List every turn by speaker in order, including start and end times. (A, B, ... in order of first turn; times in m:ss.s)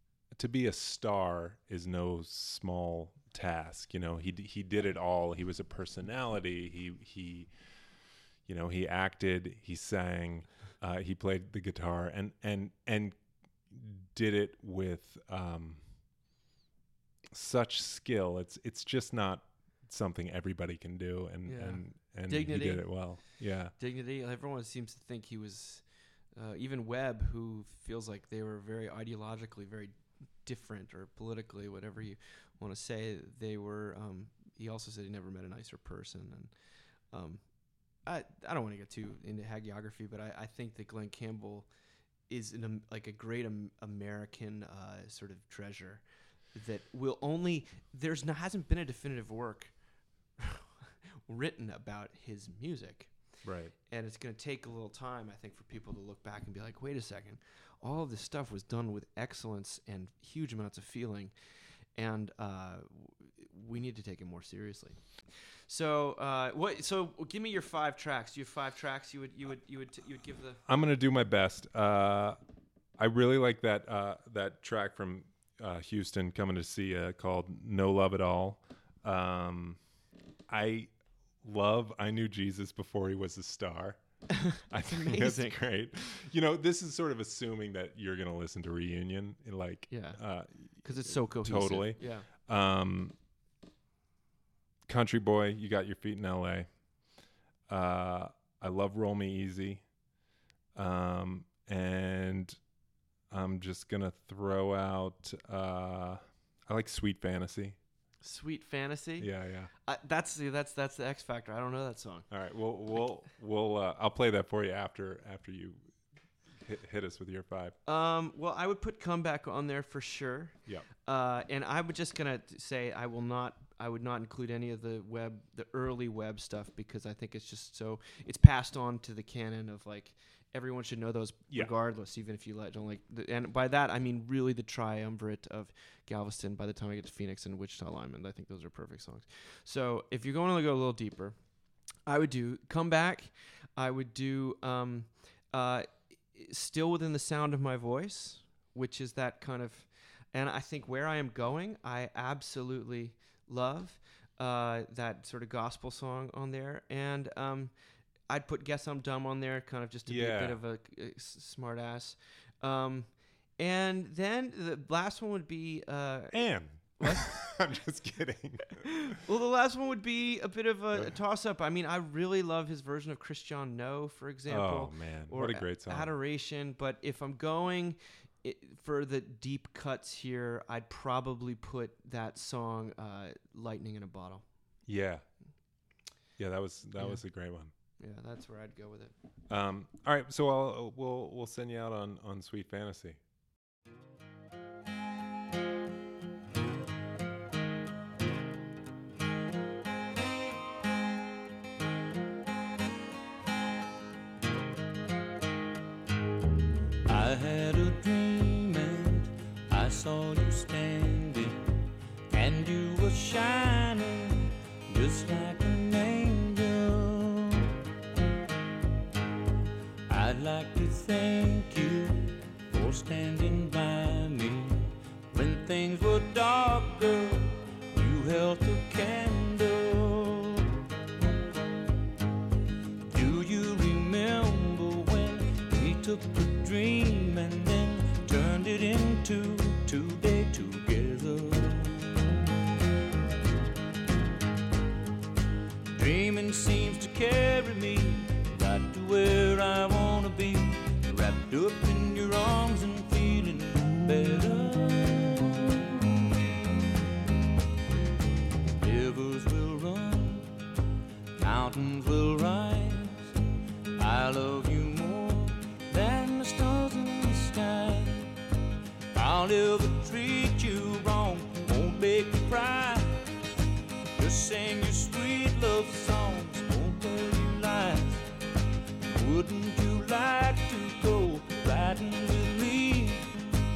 0:00.4-0:07.5 A
0:08.4-0:13.2 A
0:13.7-0:15.9 A
0:17.3-0:23.7 A
0:21.4-0:36.5 B
0:37.1-0:37.4 B
0:38.0-0:41.7 B
0:42.3-0:49.7 B
0:50.4-0:53.1 B
0:53.4-0:53.7 A
0:53.9-1:01.3 B
1:01.9-1:10.6 B
1:10.7-1:12.4 A
1:13.0-1:19.8 A
1:20.5-1:20.9 A
1:21.4-1:24.0 A
1:24.3-1:25.6 B
1:24.6-1:33.1 A
1:29.9-1:30.2 B
1:30.8-1:32.3 B
1:34.9-1:36.7 A
1:37.7-1:39.8 A
1:40.7-1:42.6 A
1:43.3-1:47.8 A
1:48.2-1:49.3 B
1:49.2-1:49.7 A
1:49.8-1:52.3 B
1:52.3-1:55.8 A
1:56.6-1:57.7 A
1:57.8-2:21.4 B
2:22.1-2:37.7 B
2:38.3-2:47.4 B
2:40.1-2:40.6 A
2:46.3-2:49.1 A
2:49.1-3:04.4 B
2:54.5-2:56.1 A
3:04.9-3:05.2 A
3:06.4-3:07.7 A
3:08.0-3:09.1 B
3:09.5-3:13.2 A
3:27.0-3:31.7 C
3:32.3-3:37.7 C
3:40.1-3:50.8 C
3:53.1-4:02.2 C
4:05.9-4:17.0 C
4:18.8-4:20.5 C
4:21.4-4:23.3 C
4:24.0-4:28.3 C
4:29.1-4:33.2 C
4:34.2-4:38.3 C
4:39.1-4:43.3 C